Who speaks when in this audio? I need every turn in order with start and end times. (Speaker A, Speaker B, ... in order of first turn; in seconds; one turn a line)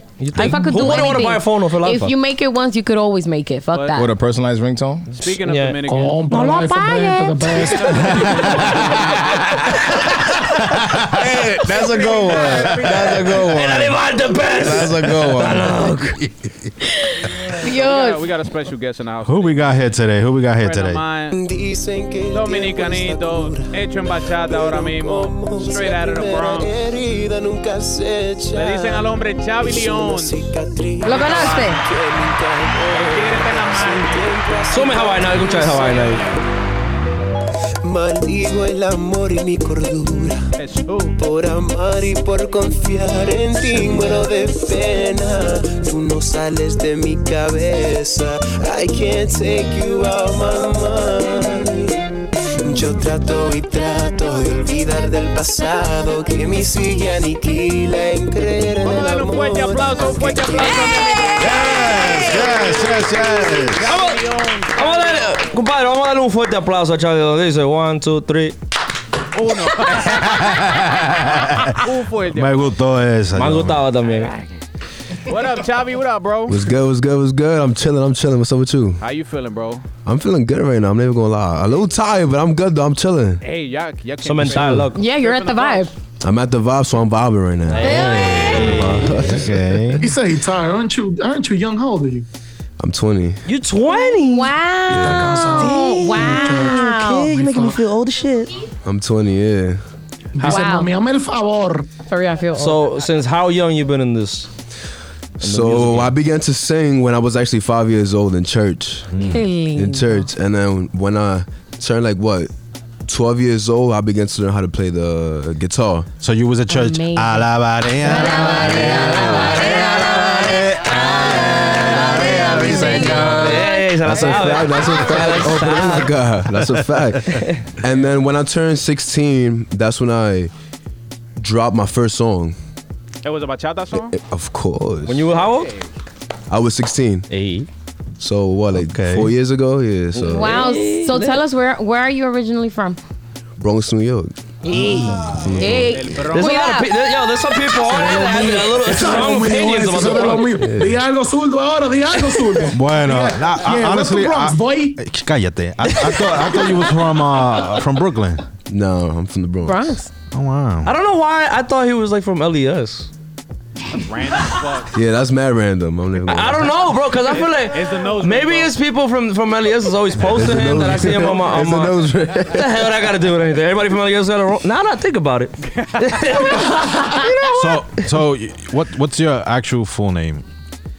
Speaker A: 0.2-2.1
Speaker B: 0.3-4.1
Speaker C: 3.7-4.0
Speaker D: 3.9-5.3
Speaker C: 5.1-6.2
Speaker A: 5.4-5.8
Speaker E: 5.9-8.5
Speaker A: 6.3-6.7
Speaker B: 6.3-7.5
Speaker C: 7.5-9.6
Speaker D: 10.9-15.8
Speaker C: 11.7-13.2
Speaker A: 13.3-16.2
Speaker B: 16.9-18.3
Speaker C: 17.6-19.9
Speaker F: 19.2-21.0
Speaker C: 20.6-21.4
Speaker G: 21.3-23.7
Speaker C: 22.3-26.9
Speaker G: 24.4-36.1
Speaker C: 28.5-30.5
Speaker C: 31.0-31.8
Speaker B: 31.0-31.8
Speaker C: 32.9-36.4
Speaker A: 34.7-36.2
Speaker G: 37.8-40.4
Speaker C: 40.6-41.2
Speaker G: 41.2-52.0
Speaker G: 52.6-60.8
Speaker C: 58.8-62.4
Speaker B: 60.6-62.6
Speaker F: 61.4-63.9
Speaker C: 63.5-65.5
Speaker A: 63.8-64.2
Speaker A: 64.7-68.5
Speaker C: 69.3-70.6
Speaker F: 70.0-73.8
Speaker C: 71.7-72.7
Speaker A: 73.3-74.3
Speaker C: 74.0-74.6
Speaker C: 75.1-76.6
Speaker H: 76.5-79.0
Speaker C: 79.0-79.8
Speaker H: 80.0-83.4
Speaker C: 83.4-85.9
Speaker A: 84.2-85.0
Speaker B: 84.9-85.9
Speaker H: 86.2-88.0
Speaker A: 87.7-89.2
Speaker B: 87.8-88.8
Speaker F: 87.9-90.1
Speaker H: 88.9-89.7
Speaker E: 90.0-92.2
Speaker H: 92.8-93.4
Speaker A: 93.5-94.5
Speaker B: 94.0-97.4
Speaker H: 94.9-95.4
Speaker E: 94.9-97.8
Speaker A: 95.6-98.5
Speaker H: 98.8-99.8
Speaker E: 100.3-101.9
Speaker B: 100.4-100.9
Speaker B: 102.1-102.8
Speaker A: 102.5-104.5
Speaker H: 105.4-112.5
Speaker A: 105.4-106.1
Speaker F: 109.1-109.4
Speaker B: 109.2-110.3
Speaker H: 113.0-116.1
Speaker F: 116.2-123.6
Speaker B: 116.7-117.5
Speaker B: 118.0-124.0
Speaker A: 122.8-126.1
Speaker H: 124.0-130.5
Speaker F: 126.6-127.4
Speaker A: 127.3-127.6
Speaker H: 131.4-132.6
Speaker C: 133.2-134.2
Speaker H: 134.1-135.3
Speaker A: 135.1-135.7
Speaker C: 135.3-135.9
Speaker H: 136.5-137.3
Speaker A: 137.3-137.7
Speaker H: 138.2-140.7
Speaker F: 138.7-139.3
Speaker A: 140.1-141.4
Speaker B: 140.2-143.0
Speaker H: 143.6-145.9
Speaker B: 144.6-146.9
Speaker F: 145.3-145.7
Speaker C: 145.8-146.7
Speaker A: 146.3-150.6
Speaker E: 147.8-155.0
Speaker H: 150.6-151.0
Speaker F: 152.7-158.4
Speaker H: 158.7-160.0
Speaker B: 159.6-160.1
Speaker F: 160.3-160.9
Speaker A: 160.8-163.1
Speaker C: 163.9-164.9
Speaker H: 164.9-166.9
Speaker A: 166.3-177.1
Speaker C: 167.2-168.7
Speaker H: 170.3-172.7
Speaker C: 175.7-176.1
Speaker H: 177.4-177.8
Speaker F: 177.5-180.4